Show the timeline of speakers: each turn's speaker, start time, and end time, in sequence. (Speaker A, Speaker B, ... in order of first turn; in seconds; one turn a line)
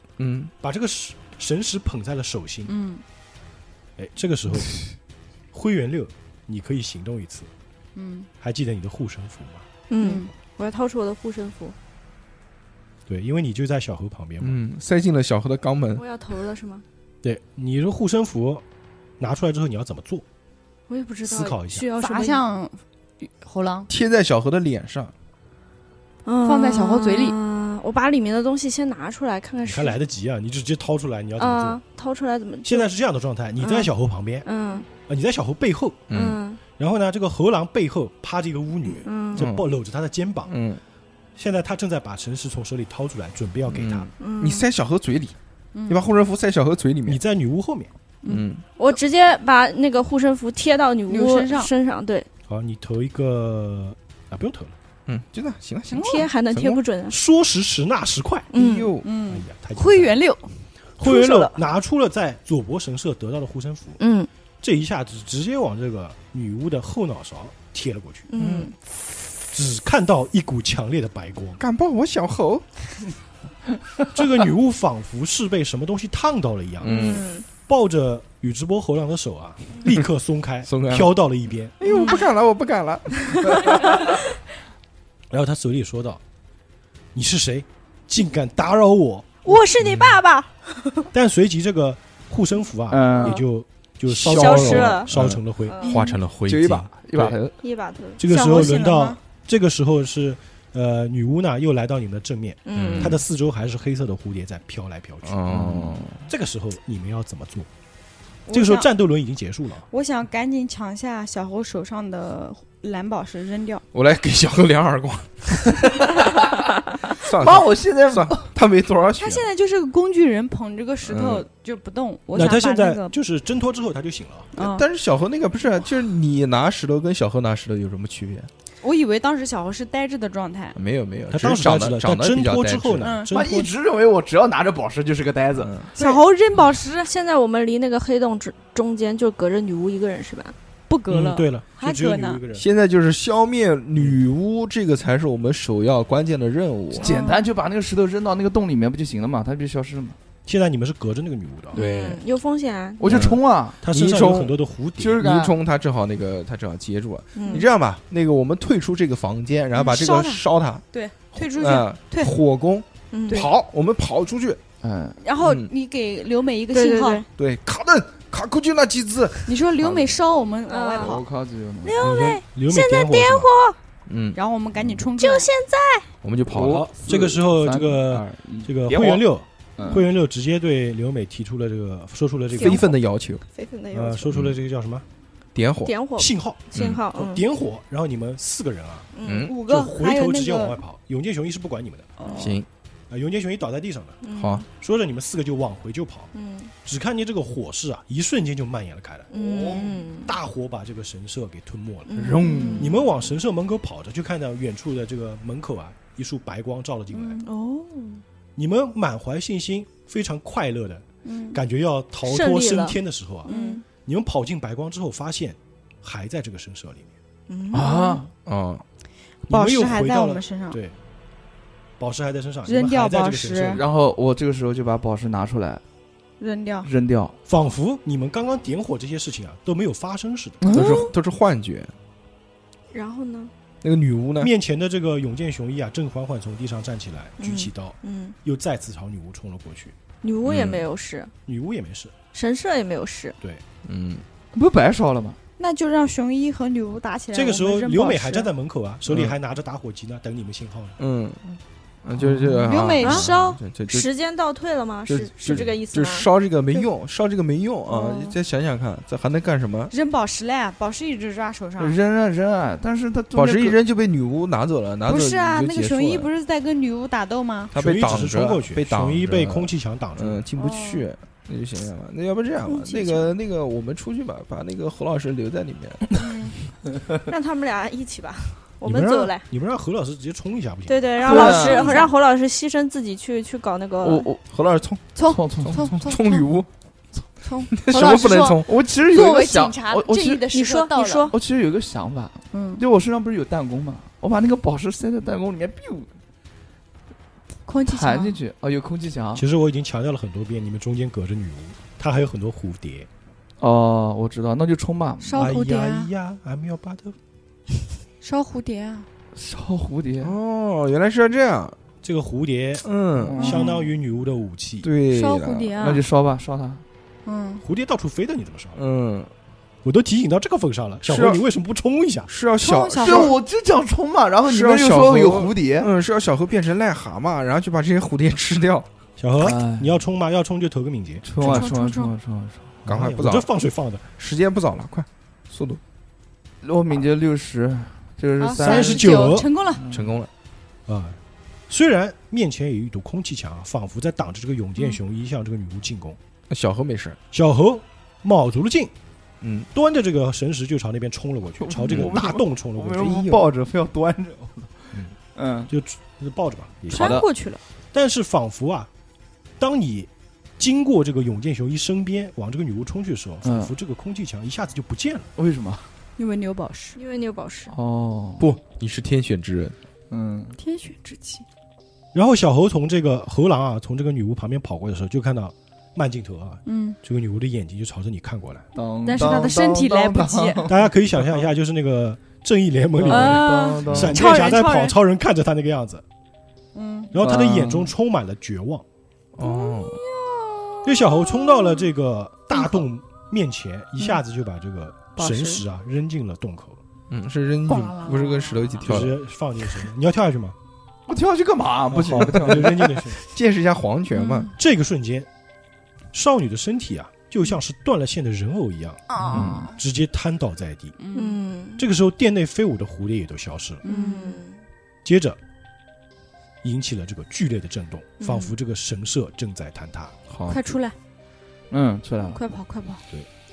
Speaker A: 0.2-0.5
Speaker B: 0.6-2.7
Speaker C: 2.7-3.0
Speaker B: 4.0-4.9
Speaker B: 5.5-7.5
Speaker C: 7.9-8.3
Speaker B: 8.4-9.7
Speaker D: 9.9-11.7
Speaker C: 10.0-10.3
Speaker B: 13.1-14.6
Speaker A: 14.4-16.0
Speaker D: 15.9-16.8
Speaker B: 17.2-18.6
Speaker B: 19.2-20.2
Speaker D: 20.9-22.4
Speaker B: 21.2-21.9
Speaker C: 21.9-23.9
Speaker A: 23.9-25.1
Speaker D: 26.2-30.0
Speaker C: 26.4-27.4
Speaker B: 29.6-31.8
Speaker D: 31.4-32.9
Speaker B: 32.6-34.5
Speaker D: 33.6-33.9
Speaker D: 34.4-34.9
Speaker B: 35.0-36.1
Speaker A: 36.1-36.4
Speaker D: 36.1-36.6
Speaker B: 36.7-40.5
Speaker D: 38.9-39.5
Speaker A: 39.4-39.6
Speaker A: 40.5-40.8
Speaker B: 41.4-44.1
Speaker A: 43.7-45.4
Speaker D: 44.2-44.6
Speaker C: 45.7-46.0
Speaker A: 45.9-47.2
Speaker B: 47.0-47.9
Speaker A: 48.2-48.6
Speaker D: 48.8-52.3
Speaker C: 51.1-51.7
Speaker B: 52.5-54.7
Speaker A: 55.1-56.8
Speaker C: 55.9-56.3
Speaker D: 56.0-57.2
Speaker B: 57.1-58.5
Speaker D: 58.5-59.0
Speaker A: 58.5-59.0
Speaker C: 59.0-60.6
Speaker B: 59.3-60.2
Speaker B: 61.0-64.0
Speaker D: 61.0-61.5
Speaker D: 64.0-64.3
Speaker B: 64.6-68.3
Speaker D: 68.3-68.7
Speaker A: 68.3-68.7
Speaker B: 69.5-71.6
Speaker A: 71.6-72.6
Speaker B: 74.1-77.0
Speaker A: 76.8-77.2
Speaker D: 76.8-77.5
Speaker B: 77.6-81.8
Speaker A: 80.7-81.1
Speaker A: 81.8-84.1
Speaker D: 81.8-82.2
Speaker D: 83.4-84.2
Speaker B: 85.3-86.2
Speaker B: 87.1-89.6
Speaker D: 89.4-91.1
Speaker A: 89.8-90.1
Speaker B: 91.1-95.8
Speaker E: 92.9-93.4
Speaker A: 94.1-97.4
Speaker D: 94.2-95.1
Speaker D: 95.6-96.2
Speaker E: 96.5-97.5
Speaker D: 97.6-98.2
Speaker B: 98.2-105.7
Speaker C: 98.2-99.2
Speaker D: 102.7-103.2
Speaker A: 102.7-103.2
Speaker A: 105.2-106.2
Speaker E: 105.5-106.0
Speaker B: 106.3-107.7
Speaker C: 108.5-108.8
Speaker B: 108.5-109.8
Speaker C: 109.9-113.8
Speaker A: 113.9-116.2
Speaker A: 117.1-119.5
Speaker E: 117.3-118.5
Speaker C: 119.2-123.1
Speaker A: 121.0-121.4
Speaker B: 122.3-124.5
Speaker C: 124.5-124.8
Speaker A: 124.6-128.5
Speaker C: 128.8-130.8
Speaker A: 130.8-133.1
Speaker B: 131.3-133.7
Speaker C: 133.0-133.3
Speaker E: 133.3-135.7
Speaker A: 135.6-135.9
Speaker C: 135.9-137.1
Speaker D: 136.0-136.2
Speaker D: 137.0-140.5
Speaker C: 140.9-142.4
Speaker B: 141.1-142.7
Speaker A: 142.5-147.1
Speaker E: 147.0-150.2
Speaker C: 147.0-147.4
Speaker B: 150.4-151.8
Speaker D: 151.7-153.3
Speaker E: 153.0-153.8
Speaker A: 153.0-154.6
Speaker B: 153.8-155.2
Speaker E: 155.0-155.6
Speaker A: 155.2-164.6
Speaker D: 157.3-157.7
Speaker C: 159.7-162.4
Speaker D: 163.1-163.5
Speaker E: 164.8-165.2
Speaker C: 165.2-167.2
Speaker A: 165.4-165.7
Speaker D: 166.7-167.2
Speaker A: 167.4-169.5
Speaker C: 169.4-171.2
Speaker E: 169.8-170.1
Speaker D: 170.7-171.2
Speaker E: 171.0-172.1
Speaker D: 171.8-173.8
Speaker B: 172.0-173.5
Speaker A: 174.1-174.4
Speaker C: 174.3-175.5
Speaker D: 175.2-176.1
Speaker A: 176.2-176.9
Speaker B: 176.5-182.9
Speaker E: 176.5-179.2
Speaker E: 179.8-180.1
Speaker A: 182.6-183.4
Speaker D: 182.6-182.9
Speaker D: 183.5-184.3
Speaker B: 183.9-185.0
Speaker A: 185.5-185.9
Speaker D: 185.8-187.4
Speaker B: 186.2-189.1
Speaker A: 186.7-187.0
Speaker D: 189.1-189.6
Speaker A: 189.2-189.5
Speaker C: 189.4-190.8
Speaker B: 189.6-192.1
Speaker C: 192.2-192.6
Speaker A: 192.3-192.7
Speaker B: 193.1-194.2
Speaker D: 194.2-194.7
Speaker A: 194.3-194.6
Speaker B: 194.8-196.3
Speaker D: 196.3-196.7
Speaker B: 196.8-199.3
Speaker D: 199.3-200.3
Speaker C: 199.6-199.9
Speaker B: 200.2-207.4
Speaker D: 202.1-203.0
Speaker E: 202.2-202.9
Speaker C: 202.4-202.9
Speaker C: 207.1-207.4
Speaker D: 207.4-208.2
Speaker B: 208.6-217.1
Speaker C: 211.2-211.6
Speaker D: 212.2-213.8
Speaker C: 213.4-213.8
Speaker D: 217.5-218.2
Speaker E: 217.7-218.2
Speaker C: 217.8-218.2
Speaker A: 218.4-218.8
Speaker C: 219.5-220.8
Speaker B: 219.5-221.0
Speaker B: 222.0-223.8
Speaker C: 222.7-223.8
Speaker E: 223.7-225.8
Speaker C: 226.4-226.9
Speaker E: 226.8-227.3
Speaker B: 227.5-230.6
Speaker E: 230.6-231.1
Speaker A: 230.7-231.9
Speaker D: 232.9-233.5
Speaker A: 233.8-234.5
Speaker B: 234.4-239.9
Speaker D: 237.4-238.3
Speaker D: 240.2-241.3
Speaker A: 240.4-240.8
Speaker B: 241.4-242.1
Speaker D: 242.3-243.4
Speaker A: 243.8-244.2
Speaker E: 244.5-245.4
Speaker C: 245.6-248.5
Speaker B: 247.3-251.0
Speaker A: 249.1-249.3
Speaker A: 251.0-254.1
Speaker E: 252.2-252.7
Speaker C: 252.6-253.6
Speaker D: 253.0-256.3
Speaker A: 255.1-259.9
Speaker D: 257.9-258.4
Speaker C: 259.9-261.9
Speaker E: 261.8-263.8
Speaker A: 263.3-266.3
Speaker C: 265.1-267.7
Speaker B: 267.7-270.4
Speaker A: 267.7-276.2
Speaker C: 270.6-271.1
Speaker D: 272.6-273.3
Speaker C: 276.2-276.5
Speaker D: 277.3-279.4
Speaker B: 278.8-281.1
Speaker D: 280.9-284.3
Speaker E: 281.2-282.0
Speaker C: 281.2-282.1
Speaker E: 284.0-284.4
Speaker A: 284.4-286.7
Speaker C: 285.1-286.5
Speaker E: 285.2-286.0
Speaker C: 287.4-291.3
Speaker A: 287.8-288.7
Speaker E: 287.9-290.5
Speaker D: 290.5-291.4
Speaker E: 291.3-296.1
Speaker C: 292.5-292.8
Speaker C: 297.7-298.4
Speaker E: 297.9-299.4
Speaker B: 299.3-303.1
Speaker E: 303.6-305.5
Speaker C: 305.2-306.1
Speaker B: 305.4-307.2
Speaker C: 308.2-309.1
Speaker E: 309.3-310.3
Speaker A: 310.2-311.8
Speaker B: 312.0-314.9
Speaker A: 312.8-313.4
Speaker E: 313.1-313.7
Speaker C: 313.4-313.9
Speaker A: 314.8-315.8
Speaker C: 315.1-316.0
Speaker E: 315.8-316.8
Speaker C: 317.2-317.6
Speaker B: 317.6-318.8
Speaker A: 318.7-319.3
Speaker B: 319.8-322.3
Speaker A: 321.0-321.4
Speaker A: 322.3-323.4
Speaker C: 322.6-323.3
Speaker E: 323.0-325.9
Speaker A: 324.4-328.9
Speaker B: 329.2-331.7
Speaker E: 329.4-330.0
Speaker E: 331.2-332.8
Speaker C: 331.4-332.1
Speaker A: 332.9-333.5
Speaker B: 332.9-334.1
Speaker A: 334.2-335.8
Speaker E: 336.6-340.1
Speaker C: 338.4-339.8
Speaker B: 338.6-339.5
Speaker A: 339.9-340.3
Speaker B: 340.9-346.2
Speaker A: 346.5-347.2
Speaker B: 347.3-348.9
Speaker A: 349.4-349.7
Speaker B: 349.7-353.3
Speaker E: 351.6-355.7
Speaker A: 351.9-352.2
Speaker A: 353.0-353.5
Speaker B: 355.7-357.2
Speaker E: 356.9-357.2
Speaker C: 356.9-357.6
Speaker B: 357.9-358.9
Speaker B: 359.6-365.3
Speaker E: 363.4-363.7
Speaker E: 365.4-365.9
Speaker C: 366.2-367.0
Speaker D: 366.9-367.7
Speaker E: 367.7-368.5
Speaker A: 368.4-369.8
Speaker E: 370.1-370.6
Speaker C: 370.5-371.4
Speaker B: 372.1-378.7
Speaker C: 376.6-377.0
Speaker E: 378.7-381.4
Speaker C: 379.0-380.7
Speaker B: 380.6-386.0
Speaker E: 383.0-384.4
Speaker C: 383.1-384.9
Speaker A: 383.8-384.1
Speaker C: 386.7-387.1
Speaker B: 387.1-388.8
Speaker E: 387.2-387.9
Speaker A: 389.3-390.0
Speaker C: 389.6-391.7
Speaker B: 390.8-396.8
Speaker E: 395.2-395.6
Speaker A: 397.1-399.2
Speaker C: 397.7-399.0
Speaker B: 398.8-400.6
Speaker E: 401.1-403.0
Speaker B: 401.9-403.2
Speaker A: 402.4-402.7
Speaker A: 403.3-404.5
Speaker C: 404.1-404.5
Speaker B: 404.5-405.3
Speaker B: 406.1-411.0
Speaker C: 409.1-409.8
Speaker E: 409.3-409.7
Speaker C: 411.0-411.4
Speaker D: 411.1-411.8
Speaker B: 411.8-413.8
Speaker C: 413.8-414.4
Speaker D: 413.8-414.6
Speaker B: 415.0-415.4
Speaker B: 416.6-420.1
Speaker D: 418.2-418.5
Speaker A: 420.3-420.6
Speaker C: 420.5-420.9
Speaker E: 421.7-422.4
Speaker C: 422.3-423.0